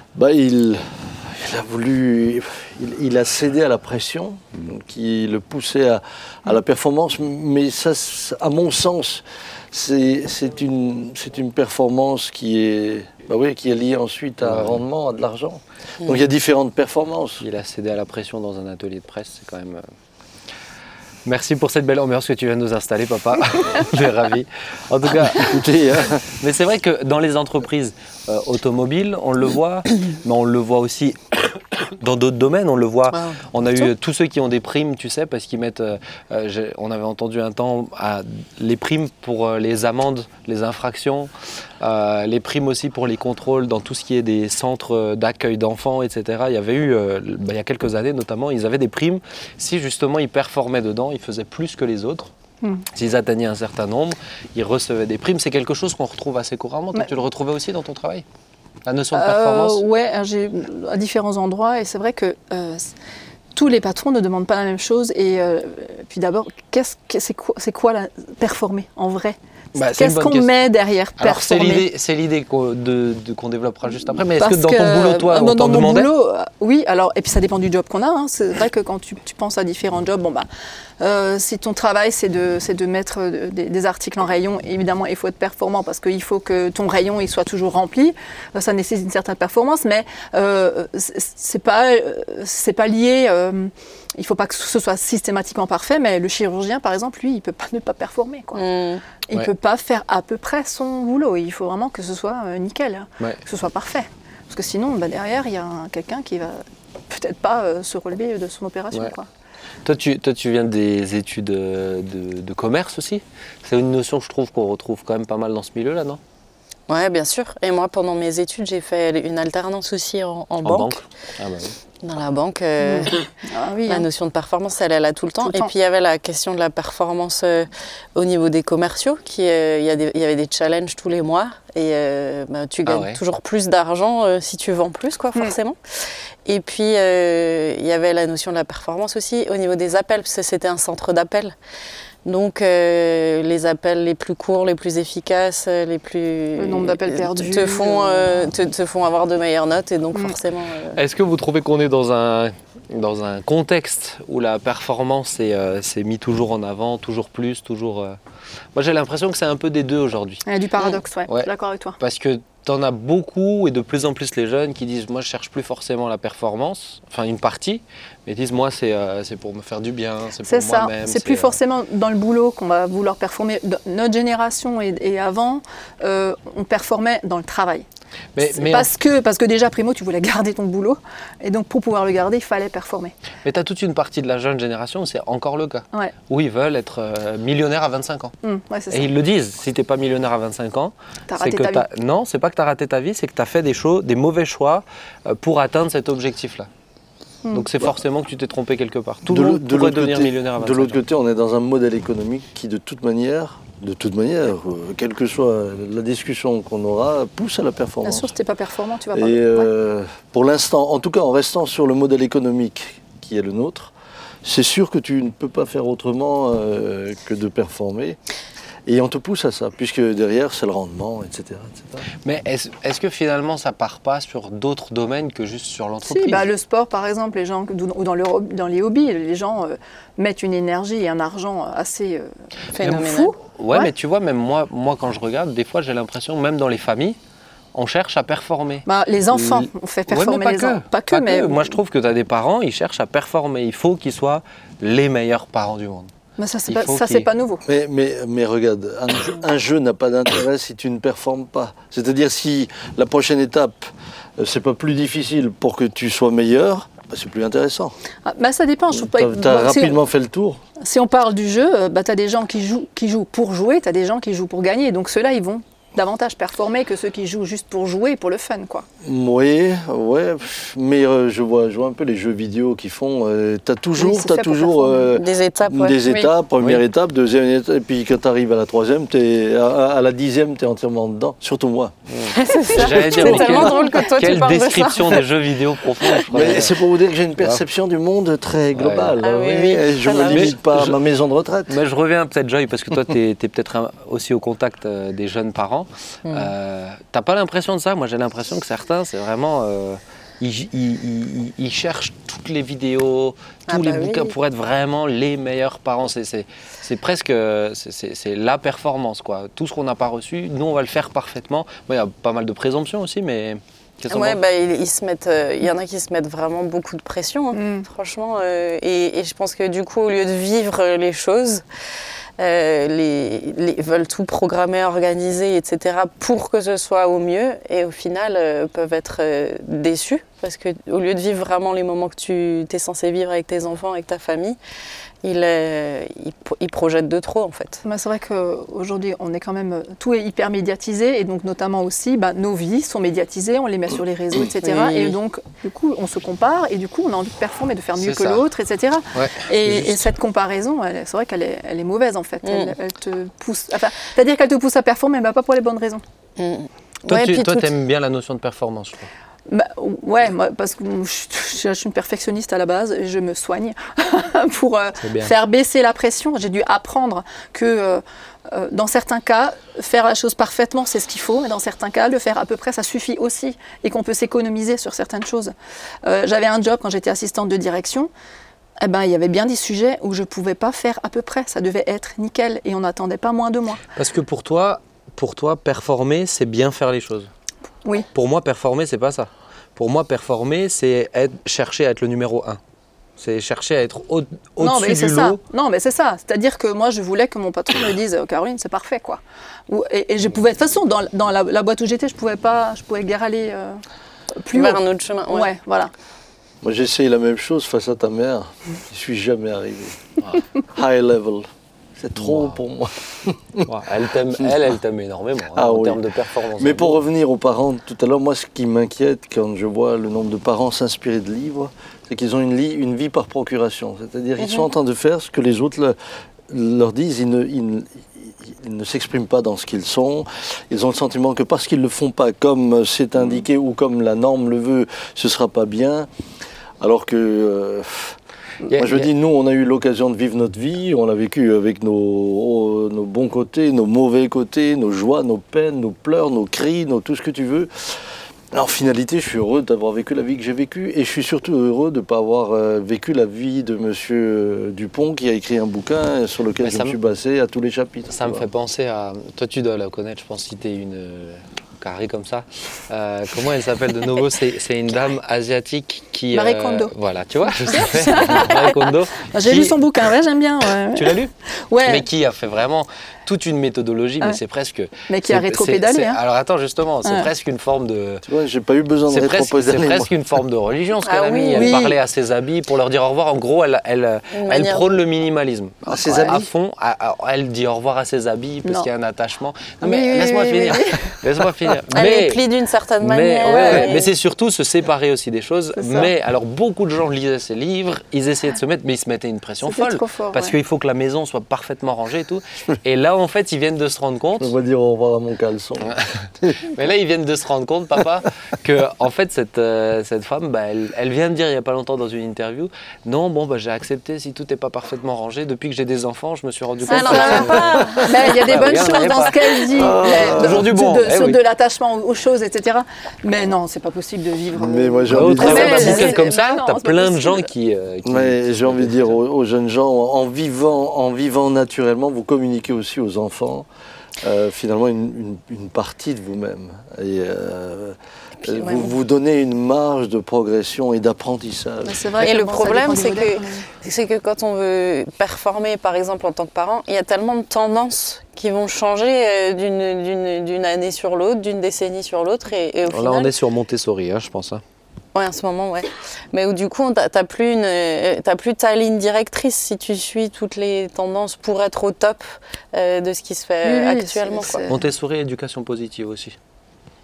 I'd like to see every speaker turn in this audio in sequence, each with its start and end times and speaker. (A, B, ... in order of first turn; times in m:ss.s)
0:00.2-0:17.4 A
0:14.4-0:14.8 B
0:17.4-0:19.8 B
0:21.3-0:25.6 B
0:25.1-0:26.3 A
0:26.3-0:52.3 B
0:33.1-0:33.4 C
0:52.9-0:58.2 B
0:58.9-0:59.8 B
0:59.1-1:02.9 D
1:03.6-1:09.4 D
1:09.7-1:10.5 B
1:09.9-1:11.9 D
1:11.2-1:16.1 B
1:14.4-1:20.5 D
1:21.0-1:38.6 D
1:38.6-1:39.0 C
1:39.3-1:49.3 D
1:49.8-1:56.2 B
1:56.9-2:01.0 C
2:00.6-2:01.8 B
2:02.0-2:03.3 C
2:02.8-2:04.1 D
2:03.8-2:21.6 C
2:05.4-2:05.7 D
2:12.9-2:13.2 B
2:22.2-2:31.0 C
2:26.6-2:28.5 D
2:30.9-2:38.2 B
2:38.7-2:40.4 B
2:40.5-2:42.0 D
2:41.3-2:51.6 B
2:50.5-2:57.8 D
2:58.4-2:58.9 B
2:58.4-3:03.1 D
3:03.4-3:08.3 B
3:08.4-3:09.1 D
3:08.9-3:16.7 B
3:11.3-3:11.8 D
3:17.5-3:21.0 B
3:19.3-3:28.3 A
3:28.0-3:29.7 D
3:29.1-3:33.9 A
3:34.4-3:38.2 A
3:38.9-3:42.0 A
3:42.2-3:46.5 B
3:46.1-3:53.9 D
3:52.7-3:53.3 C
3:52.8-3:57.2 B
3:57.7-4:06.1 B
3:58.9-4:01.8 D
4:06.4-4:07.6 D
4:06.7-4:07.3 B
4:07.6-4:18.0 A
4:18.2-4:20.0 D
4:18.9-4:20.6 A
4:20.8-4:28.8 D
4:29.0-4:42.0 A
4:34.0-4:35.1 D
4:35.2-4:36.0 C
4:42.1-4:46.8 B
4:42.3-4:45.3 C
4:43.0-4:43.7 A
4:46.3-4:51.7 A
4:48.7-4:49.2 B
4:49.2-4:50.6 C
4:50.2-4:51.0 B
4:51.7-5:14.4 B
4:56.3-4:56.5 C
5:03.7-5:04.3 C
5:14.1-5:21.6 C
5:17.5-5:17.9 D
5:22.4-5:34.6 C
5:35.2-5:37.8 C
5:37.8-5:56.0 D
5:44.6-5:45.2 C
5:48.0-5:48.4 B
5:49.1-5:50.1 B
5:52.4-5:52.8 C
5:56.4-5:57.7 C
5:57.1-5:59.1 B
5:59.5-6:18.1 D
6:05.0-6:05.3 B
6:18.8-6:23.8 D
6:24.0-6:27.3 B
6:28.1-6:32.6 B
6:33.2-6:35.4 B
6:34.6-6:43.8 D
6:44.4-6:45.9 D
6:44.5-6:45.5 C
6:46.6-6:53.7 A
6:52.2-6:52.6 B
6:53.7-6:57.0 B
6:55.5-7:06.0 A
7:04.4-7:04.7 C
7:06.5-7:16.1 A
7:16.8-7:18.2 A
7:18.7-7:19.1 B
7:18.7-7:38.5 A
7:36.6-7:37.0 B
7:38.1-7:49.8 B
7:46.3-7:46.9 D
7:47.7-7:52.1 D
7:50.9-7:58.2 B
7:55.1-7:56.2 D
7:58.2-8:00.1 A
7:59.1-8:12.4 B
8:01.0-8:01.8 C
8:01.6-8:02.0 D
8:04.3-8:05.0 C
8:05.9-8:06.4 A
8:05.9-8:06.4 D
8:09.8-8:11.2 D
8:11.9-8:14.1 C
8:13.0-8:24.5 B
8:13.4-8:14.0 D
8:15.8-8:16.1 D
8:19.7-8:20.6 D
8:24.4-8:26.6 A
8:25.9-8:41.4 B
8:36.9-8:38.4 C
8:36.9-8:47.5 D
8:39.7-8:40.7 A
8:44.5-8:46.2 A
8:45.1-8:49.2 B
8:48.0-9:02.2 A
8:58.5-8:58.9 C
9:01.8-9:03.7 D
9:02.2-9:13.3 C
9:12.9-9:14.6 B
9:15.2-9:24.6 C
9:23.6-9:24.8 D
9:24.7-9:26.4 B